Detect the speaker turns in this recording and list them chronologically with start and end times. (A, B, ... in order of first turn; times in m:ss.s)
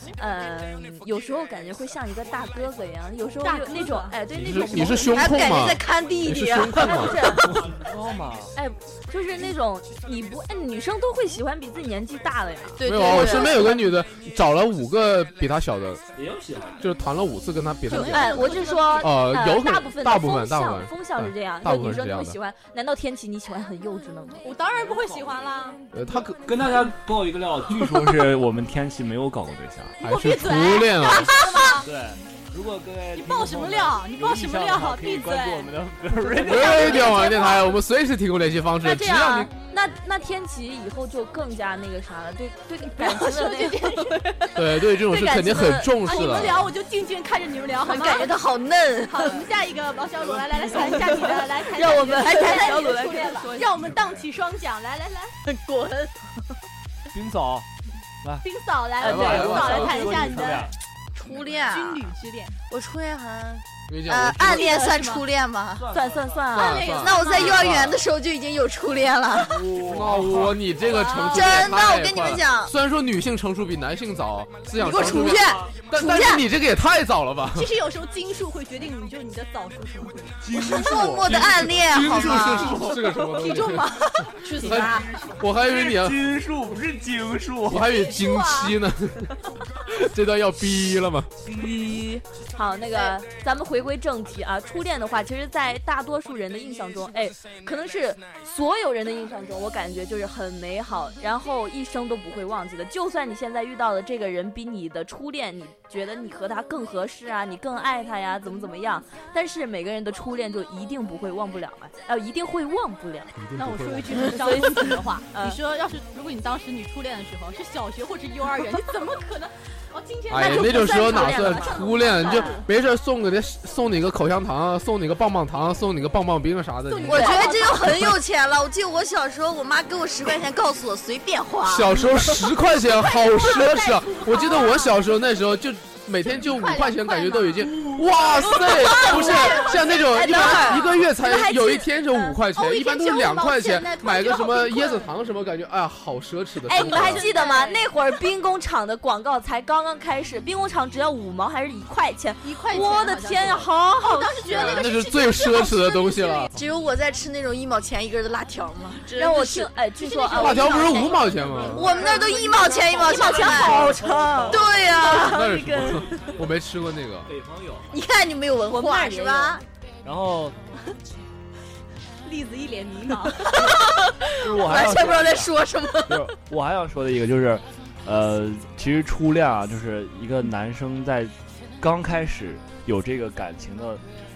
0:00.2-0:05.6 A
0:03.4-0:04.2 B
0:04.3-0:07.4 C
0:04.4-0:04.7 D
0:05.1-0:07.7 E
0:06.8-0:07.4 A
0:07.4-0:08.5 D
0:08.6-0:13.8 A
0:12.8-0:13.8 E
0:12.8-0:16.0 C
0:16.1-0:16.8 D
0:16.8-0:22.4 C
0:17.9-0:19.1 B
0:17.9-0:24.4 A
0:24.4-0:25.8 B
0:24.7-0:25.5 D
0:25.9-0:26.4 C
0:26.4-0:30.0 D
0:30.0-0:31.5 C
0:30.0-0:31.9 B
0:31.2-0:31.7 E
0:31.8-0:37.2 D
0:33.2-0:35.7 B
0:36.4-0:39.5 C
0:36.9-0:37.3 B
0:36.9-0:37.2 A
0:38.8-0:46.7 A
0:43.0-0:44.3 B
0:44.5-0:46.7 C
0:46.0-0:48.4 B
0:47.8-0:49.4 E
0:49.1-0:55.4 B
0:50.3-0:51.0 D
0:50.8-0:51.3 E
0:51.5-0:53.7 A
0:51.8-0:53.3 E
0:55.4-0:56.3 E
0:57.1-0:57.7 D
0:58.4-1:00.7 B
0:59.0-1:00.1 C
0:59.0-1:00.7 D
0:59.0-1:00.5 A
1:01.1-1:02.1 E
1:01.7-1:02.6 B
1:02.7-1:05.9 E
1:03.9-1:04.7 C
1:04.4-1:05.2 B
1:05.7-1:06.5 D
1:05.9-1:07.0 A
1:06.5-1:08.0 C
1:06.5-1:07.8 B
1:07.0-1:09.7 E
1:09.3-1:10.8 D
1:09.8-1:17.7 C
1:10.8-1:11.6 B
1:11.3-1:12.7 E
1:14.8-1:16.5 E
1:15.0-1:15.7 D
1:17.5-1:20.4 B
1:20.4-1:21.4 D
1:20.5-1:26.2 C
1:20.5-1:22.9 E
1:22.2-1:23.0 D
1:23.3-1:25.0 B
1:24.4-1:25.2 E
1:24.8-1:27.9 D
1:27.7-1:31.3 C
1:27.9-1:28.8 B
1:31.4-1:53.3 A
1:32.9-1:33.2 E
1:53.3-1:54.6 C
1:53.5-2:02.7 B
1:54.3-1:55.6 A
2:00.3-2:07.8 C
2:00.4-2:02.6 A
2:06.9-2:08.0 B
2:07.0-2:12.5 E
2:07.1-2:07.6 A
2:11.6-2:27.3 C
2:12.8-2:14.9 B
2:16.3-2:17.7 B
2:17.6-2:18.3 D
2:18.3-2:20.9 E
2:18.8-2:21.9 A
2:18.9-2:19.8 B
2:22.1-2:25.1 B
2:26.7-2:34.9 A
2:26.9-2:27.8 E
2:32.4-2:36.5 B
2:34.5-2:36.5 C
2:36.5-2:39.7 E
2:39.1-2:41.2 A
2:40.0-2:43.5 B
2:40.3-2:41.1 E
2:40.3-2:42.0 C
2:41.7-2:45.4 E
2:42.0-2:44.9 D
2:43.1-2:46.3 A
2:43.3-2:44.0 C
2:45.1-2:47.3 C
2:47.2-2:48.0 D
2:47.9-2:49.6 E
2:48.7-2:49.6 A
2:50.0-2:50.6 D
2:52.2-2:53.5 B
2:53.3-2:56.3 E
2:53.5-2:53.8 D
2:54.4-2:55.5 D
2:56.1-3:04.0 D